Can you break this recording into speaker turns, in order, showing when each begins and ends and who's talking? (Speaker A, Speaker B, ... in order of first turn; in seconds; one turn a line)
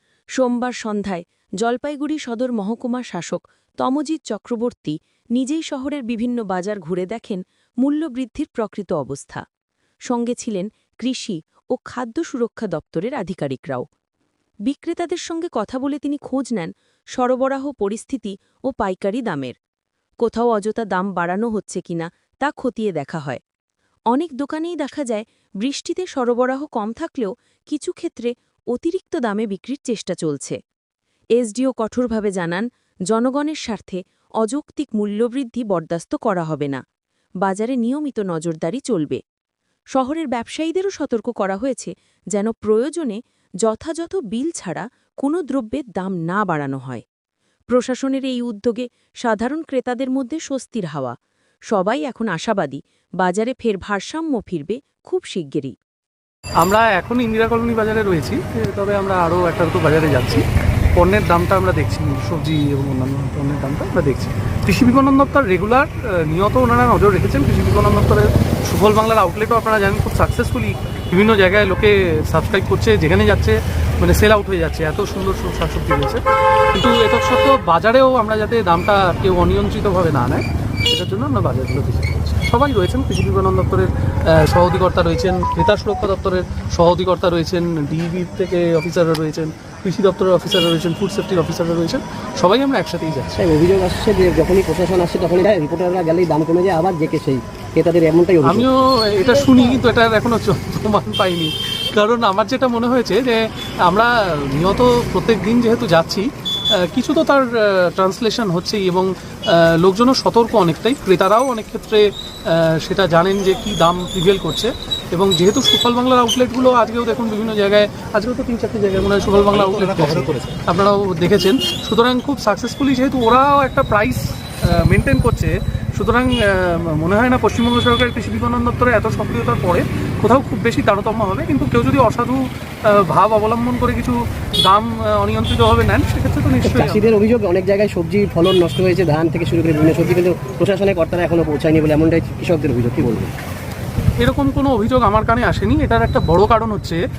Speaker A: 0.4-9.4
Speaker A: 10.1-13.8
Speaker A: 14.7-19.6
Speaker A: 20.2-23.4
Speaker A: 24.1-30.6
Speaker A: 31.4-36.8
Speaker A: 37.4-39.2
Speaker A: 40.0-47.0
Speaker A: 47.7-51.1
Speaker A: 51.7-55.7
Speaker B: 56.6-60.4
Speaker B: 61.0-76.2
Speaker B: 76.7-93.4
Speaker C: 93.4-98.7
Speaker B: 98.4-106.3
Speaker B: 106.8-137.1
Speaker C: 136.6-143.3
Speaker B: 144.2-147.0